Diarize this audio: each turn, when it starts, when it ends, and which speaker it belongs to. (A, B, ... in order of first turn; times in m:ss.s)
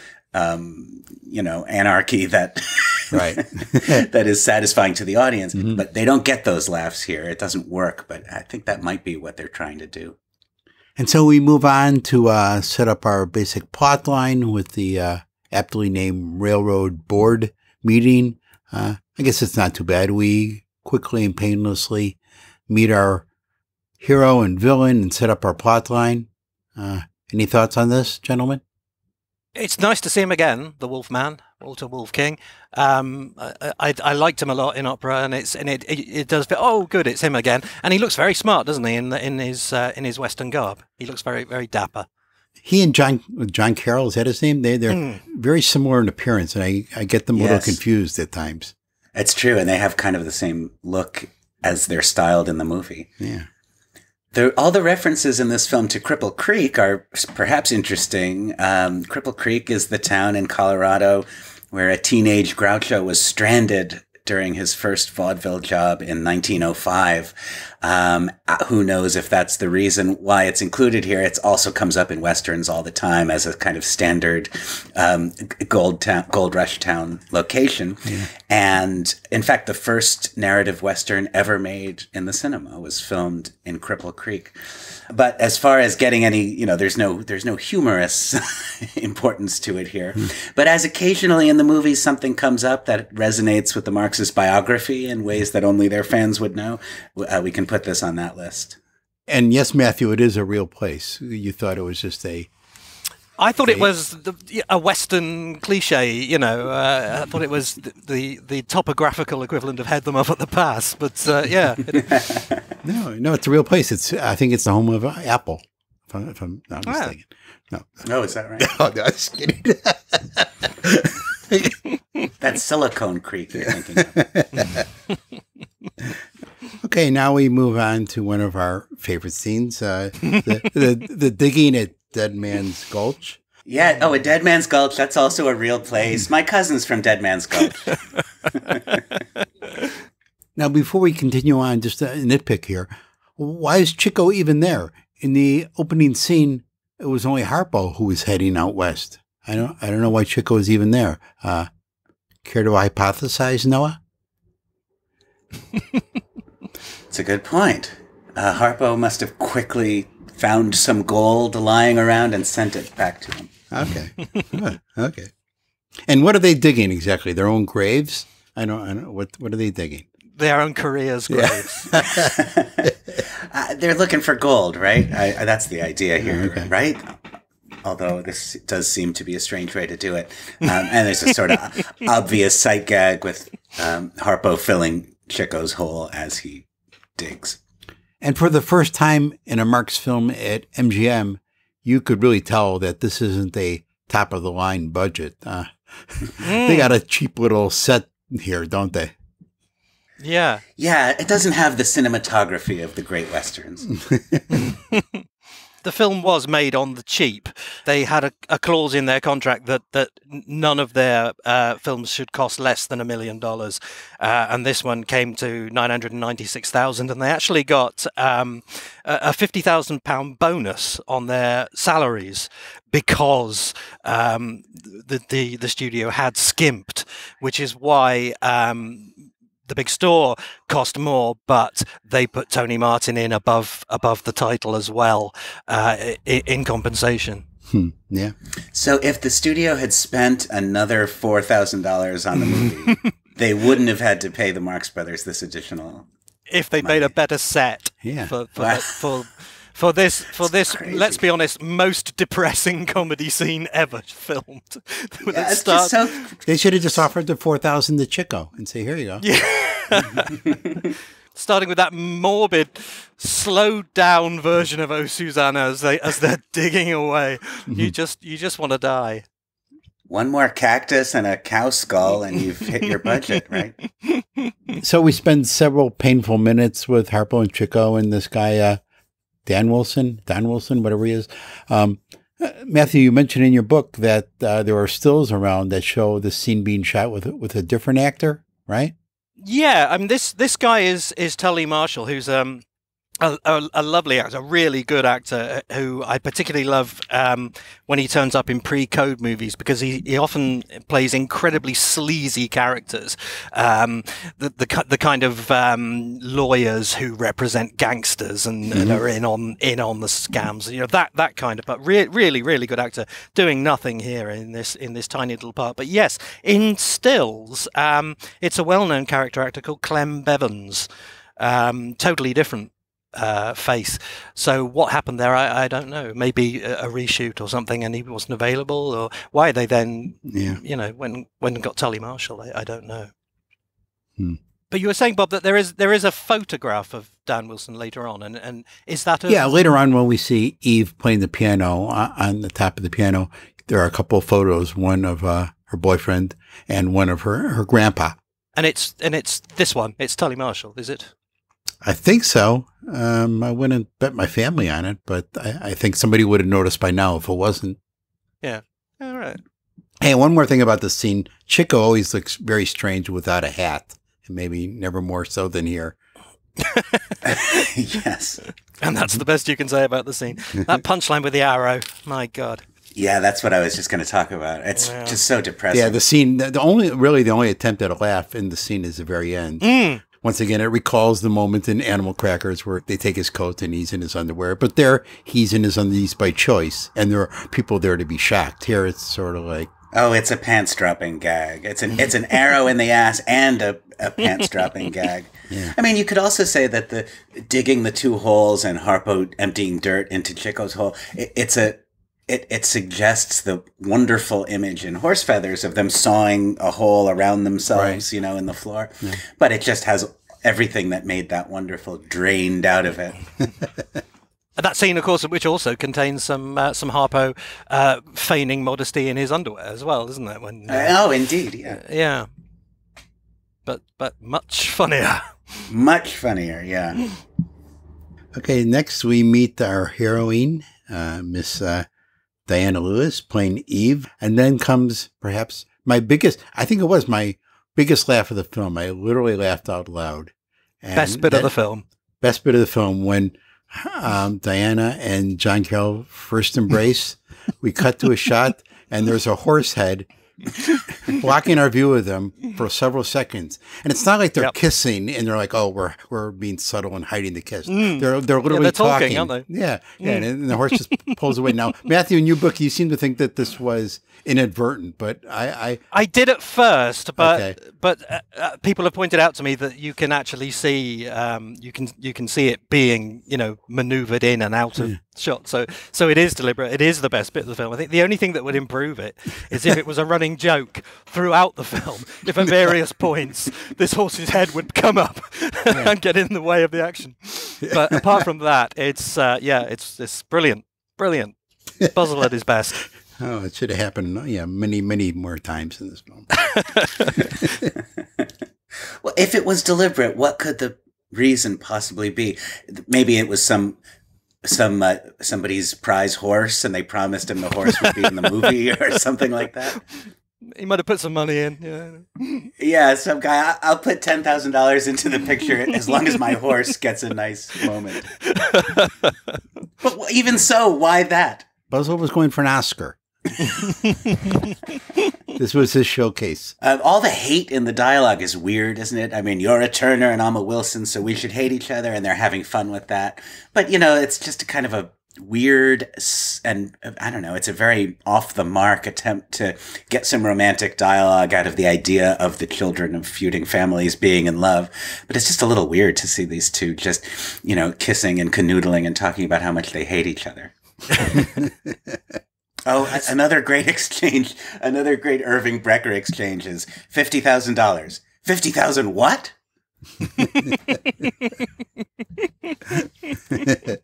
0:00.3-0:10.2 A
0:03.1-0:04.1 B
0:05.6-0:05.8 B
0:11.0-0:23.2 B
0:24.0-0:28.6 B
0:29.6-0:42.1 C
0:42.6-0:48.7 B
0:44.9-0:45.2 C
0:47.3-0:47.8 A
0:49.2-0:53.1 A
0:53.2-0:53.5 B
0:54.3-1:24.6 A
1:25.1-1:38.8 A
1:39.3-1:42.5 B
1:43.4-1:52.1 C
1:43.6-1:43.9 B
1:52.0-1:52.4 A
1:52.8-1:58.0 B
1:56.9-1:57.1 C
1:58.0-1:58.7 A
1:58.6-2:01.8 B
2:02.4-2:04.4 A
2:03.7-2:04.8 B
2:06.8-2:13.4 B
2:13.6-2:19.0 A
2:20.6-2:31.7 B
2:32.4-2:34.0 B
2:37.1-2:43.5 A
2:43.7-2:45.3 B
2:46.1-2:50.0 B
2:50.4-2:52.0 C
2:51.3-2:52.9 B
2:52.2-2:57.1 A
2:56.2-2:56.7 B
2:57.8-3:06.7 A
3:07.2-3:07.6 A
3:08.2-3:19.1 B
3:16.4-3:16.9 C
3:20.2-3:20.6 C
3:20.8-3:23.9 A
3:24.0-3:24.4 B
3:24.5-3:25.2 C
3:25.8-3:49.1 C
3:49.7-3:57.4 C
3:57.7-3:58.3 B
3:58.7-4:06.1 A
4:06.5-4:16.0 C
4:06.8-4:07.1 A
4:08.0-4:08.3 B
4:08.6-4:09.0 A
4:10.4-4:11.2 A
4:15.3-4:16.7 A
4:16.5-4:19.2 B
4:19.2-4:20.4 C
4:21.4-4:29.2 C
4:30.1-4:33.8 A
4:34.0-4:34.5 C
4:34.8-4:38.8 B
4:39.5-4:48.9 B
4:49.4-4:52.6 C
4:53.2-5:33.1 C
5:08.7-5:09.0 B
5:30.3-5:30.6 B
5:34.7-5:39.5 C
5:39.3-5:48.2 B
5:48.6-5:51.1 C
5:51.8-5:57.8 B
5:58.4-5:59.4 C
6:00.0-6:06.0 B
6:06.6-6:07.6 C
6:07.3-6:08.4 A
6:08.8-6:12.6 C
6:13.0-6:16.0 A
6:14.8-6:15.2 C
6:15.7-6:29.7 B
6:19.6-6:20.0 C
6:29.9-6:53.2 A
6:35.5-6:35.8 B
6:47.7-6:48.0 B
6:54.6-7:01.0 C
7:00.7-7:01.8 A
7:01.7-7:02.3 C
7:03.7-7:05.4 C
7:05.7-7:07.0 A
7:08.3-7:11.9 B
7:12.5-7:21.5 B
7:21.0-7:21.8 C
7:22.2-7:30.1 B
7:31.1-7:45.8 B
7:37.7-7:39.5 C
7:40.0-7:41.1 C
7:45.9-8:11.4 C
7:47.2-7:47.6 B
8:07.7-8:08.0 B
8:11.9-8:12.8 C
8:13.2-8:16.3 B
8:16.3-8:17.2 C
8:19.0-8:23.8 A
8:24.4-8:29.8 A
8:30.6-8:32.5 C
8:32.6-8:38.1 A
8:38.3-8:39.4 C
8:39.8-8:41.5 A
8:41.7-8:43.0 B
8:43.6-8:44.1 C
8:45.4-8:46.5 B
8:46.6-9:11.2 A
9:11.4-9:12.0 B
9:12.7-9:19.3 A
9:20.1-9:21.5 C
9:22.2-9:23.5 C